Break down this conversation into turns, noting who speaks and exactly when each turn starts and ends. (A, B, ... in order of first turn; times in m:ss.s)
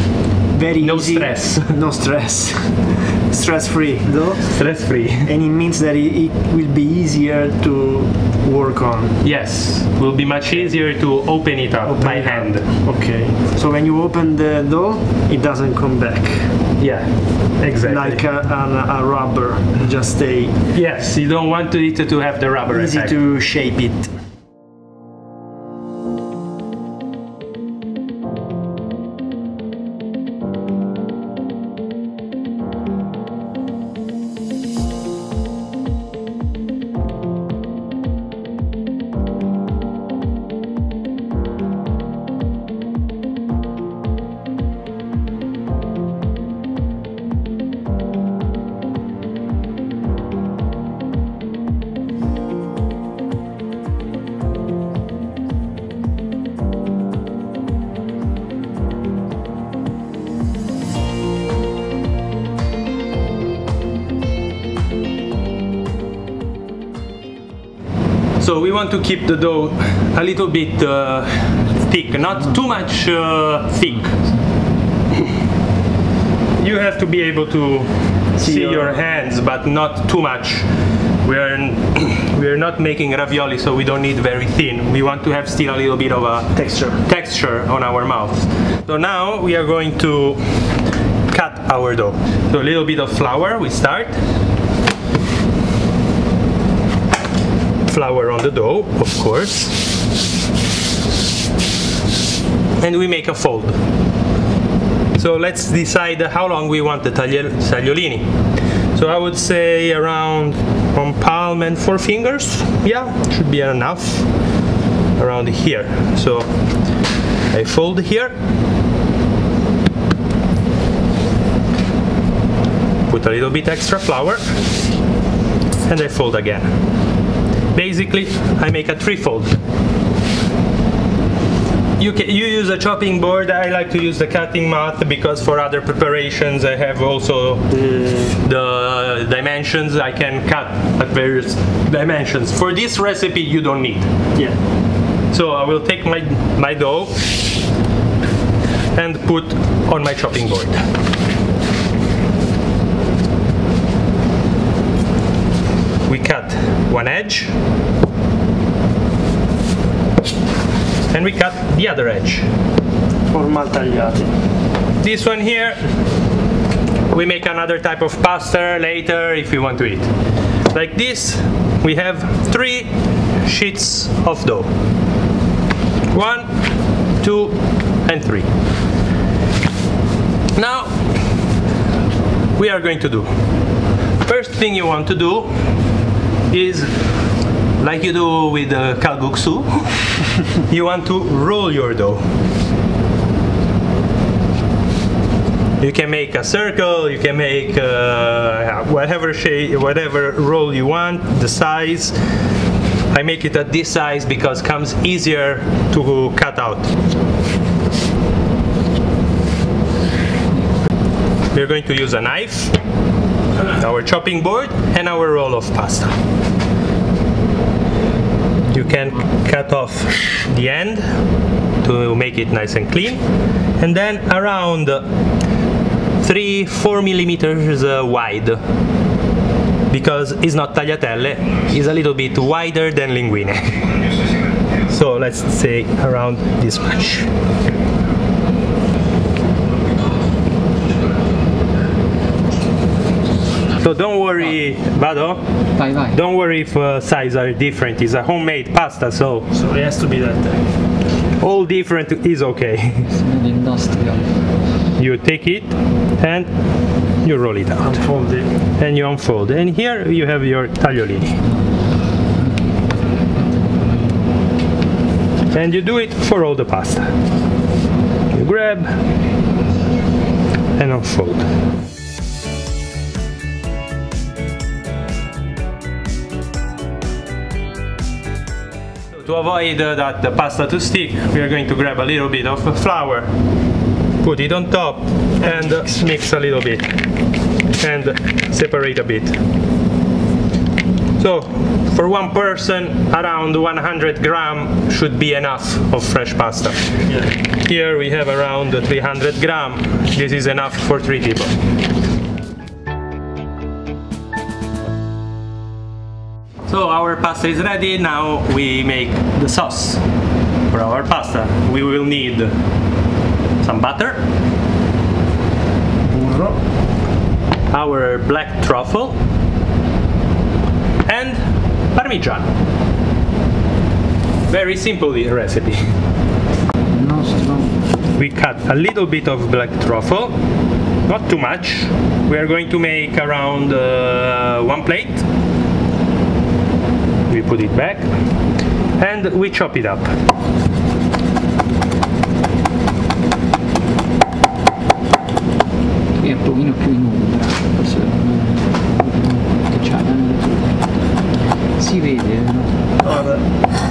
0:00.5-0:04.5 A
0:00.8-0:01.8 B
0:04.4-0:05.3 B
0:05.2-0:09.2 A
0:09.2-0:12.7 B
0:11.8-0:16.6 A
0:16.8-0:18.2 B
0:17.8-0:20.6 A
0:20.7-0:23.2 B
0:22.7-0:24.1 A
1:08.4-1:14.2 B
1:16.6-1:30.7 B
1:18.4-1:19.1 A
1:26.5-1:27.0 A
1:31.3-1:34.2 B
1:37.9-1:39.8 B
1:42.8-1:43.8 B
1:45.2-1:48.3 B
1:48.9-1:54.3 B
1:55.2-1:56.5 B
1:57.5-1:58.3 B
2:03.1-2:04.4 B
2:05.9-2:06.7 B
2:07.8-2:09.6 B
2:12.0-2:17.7 B
2:17.7-2:18.4 A
2:18.4-2:24.1 B
2:25.3-2:27.2 B
2:28.9-2:30.8 B
2:36.1-2:37.5 B
2:41.1-2:42.4 B
2:43.3-2:44.3 A
2:45.0-2:45.8 B
2:47.1-2:50.1 B
2:50.7-2:54.7 B
2:56.1-2:56.5 B
2:57.2-2:58.5 B
3:00.6-3:00.9 B
3:02.6-3:03.3 B
3:04.2-3:05.5 B
3:06.5-3:06.9 B
3:07.8-3:12.2 B
3:15.8-3:22.2 B
3:23.1-3:26.9 B
3:31.5-3:32.8 B
3:33.6-3:36.1 B
3:38.7-3:41.0 B
3:41.8-3:43.2 B
3:43.8-3:45.1 B
3:46.2-3:48.6 B
3:49.9-3:53.9 B
3:54.9-3:57.3 B
4:03.8-4:05.4 B
4:05.8-4:06.2 C
4:06.1-4:09.5 B
4:09.5-4:10.7 A
4:11.4-4:13.1 B
4:13.1-4:14.4 C
4:15.0-4:16.5 B
4:17.2-4:18.0 B
4:17.8-4:18.5 A
4:18.8-4:21.4 B
4:25.5-4:27.1 B
4:28.3-4:28.9 B
4:30.8-4:31.5 B
4:39.1-4:43.3 B
4:44.2-4:46.9 B
4:45.4-4:45.9 A
4:47.8-4:49.4 B
4:51.2-4:56.8 B
4:57.1-4:57.3 A
4:57.6-5:01.6 B
5:06.7-5:10.0 B
5:10.7-5:12.5 B
5:13.6-5:14.2 B
5:16.0-5:16.6 A
5:17.7-5:19.2 B
5:21.1-5:21.4 B
5:21.9-5:22.5 B
5:24.5-5:26.0 B
5:26.9-5:27.8 C
5:28.2-5:30.3 B
5:31.1-5:35.2 B
5:37.3-5:38.1 B
5:39.0-5:40.1 B
5:46.2-5:50.9 C
5:51.8-5:52.8 C
5:53.0-5:53.4 A